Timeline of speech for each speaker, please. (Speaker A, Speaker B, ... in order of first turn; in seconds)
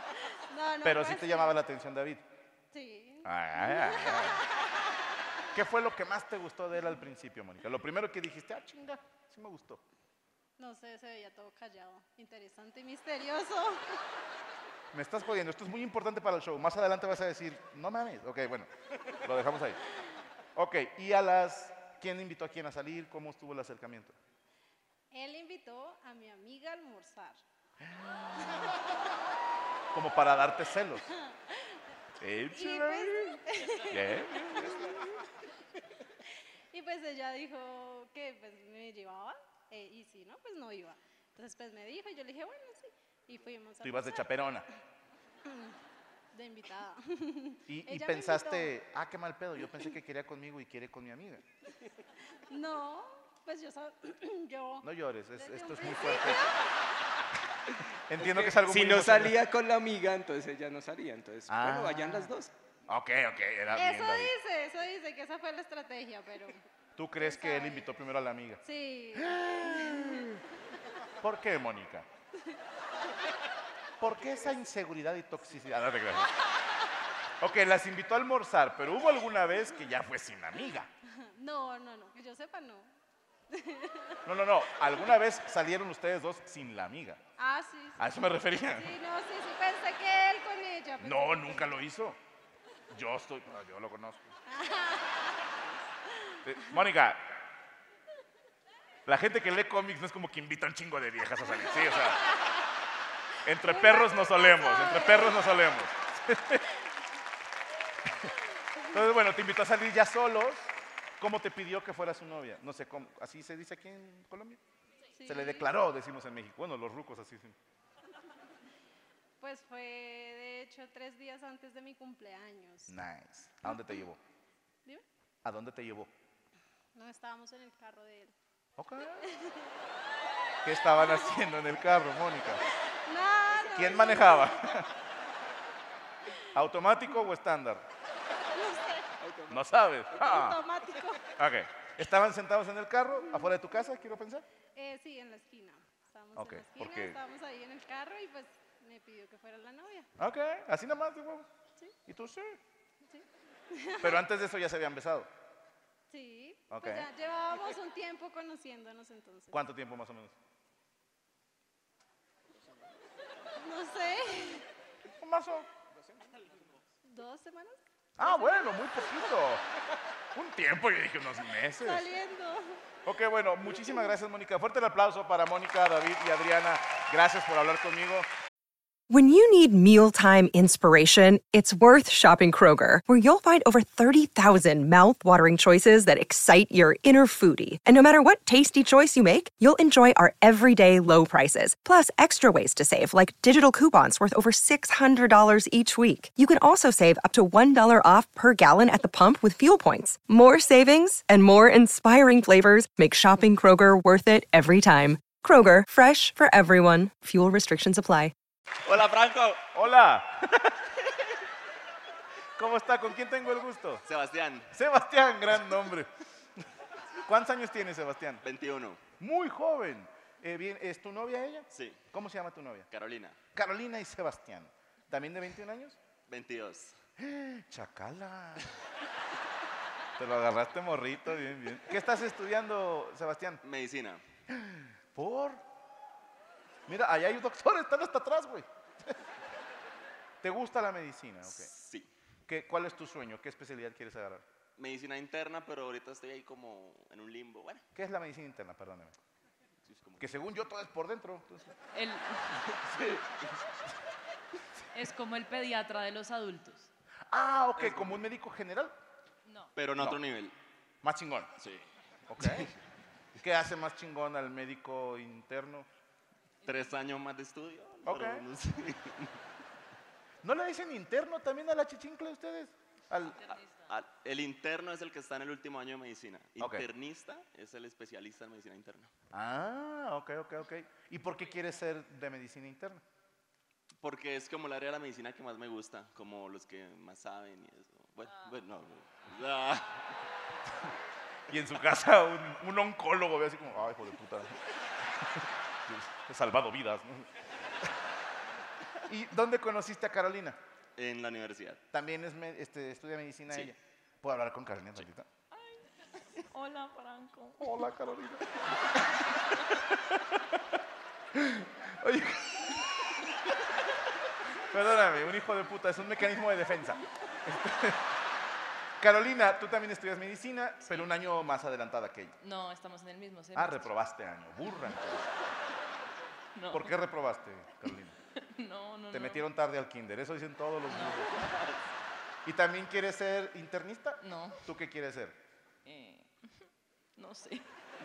Speaker A: 0.5-1.5, 2.7-4.5, 10.6-14.0, 25.1-27.4, 31.2-31.8, 32.5-35.0, 36.7-44.5, 45.5-45.7, 46.3-48.7, 52.5-54.8, 55.4-56.7, 63.7-66.6, 67.2-67.9, 68.6-70.4, 81.3-82.9, 83.5-85.1, 87.4-88.0, 88.6-91.8, 94.5-95.5, 96.3-96.8, 101.7-102.6, 103.6-105.7, 115.1-115.7, 119.4-122.9, 126.9-128.3, 129.2-129.7, 130.9-131.2, 133.1-134.6, 138.5-139.1, 140.2-141.2, 144.8-150.1, 153.1-154.2, 156.1-159.6, 163.6-164.7, 167.0-169.3, 171.8-172.8
Speaker B: 0.8-2.2, 3.2-4.4, 5.5-9.8, 14.9-18.7, 19.2-19.8, 20.5-24.1, 27.8-28.7, 29.9-31.1, 32.2-35.0, 43.8-44.7, 47.7-51.4, 54.8-56.5, 58.1-59.4, 61.5-62.3, 62.9-64.3, 67.0-68.6, 69.2-70.4, 71.2-72.1, 74.0-76.3, 77.4-80.9, 84.2-87.2, 88.0-88.9, 91.0-92.2, 92.9-94.2, 96.4-97.2, 99.0-102.3, 103.4-106.7, 108.9-114.6, 115.2-117.5, 122.9-124.2, 125.4-126.1, 128.8-129.2, 130.6-132.6, 133.6-134.9, 136.5-137.8, 139.5-140.6, 141.3-144.4, 146.3-147.2, 150.2-151.5, 152.1-152.6, 154.0-155.3, 156.7-157.1, 159.5-160.3, 165.2-165.7, 168.2-169.6, 170.3-172.1, 173.0-178.3, 209.7-210.8, 212.6-214.0, 214.7-216.1, 217.2-218.4, 219.2-222.9, 223.5-226.0, 227.2-228.7, 230.2-233.6, 234.5-235.6, 236.9-239.1, 240.4-241.7, 242.5-244.4, 247.9-249.2, 250.2-251.7, 257.3-258.9, 261.0-261.5, 262.3-262.7, 263.4-265.9, 268.0-268.4, 270.4-273.4, 276.6-276.9, 279.3-283.0, 291.5-297.3, 299.1-300.6, 301.9-305.3, 307.6-308.8, 310.1-310.6, 311.3-312.8, 314.7-317.0, 317.6-318.0, 319.0-322.4, 323.5-325.3, 326.7-328.1, 329.1-331.6, 332.4-335.4
Speaker C: 58.2-62.5, 139.2-139.6
Speaker D: 179.1-208.3
Speaker E: 208.8-209.7, 214.1-214.7, 218.4-219.0, 221.7-222.0, 222.9-223.4, 226.3-227.0, 233.6-234.2, 241.4-242.1, 244.8-247.8, 249.8-250.3, 252.8-253.2, 257.8-258.2, 259.7-260.5, 261.6-261.8, 262.4-262.7, 266.6-269.3, 273.9-279.1, 284.0-290.0, 301.0-301.8
Speaker F: 251.9-252.6, 254.9-256.9, 259.4-259.7, 273.4-273.9, 305.5-305.8, 306.4-307.8, 322.4-323.9, 326.5-326.9, 328.4-329.4, 330.9-331.5, 334.2-334.6, 335.8-336.3, 337.1-337.7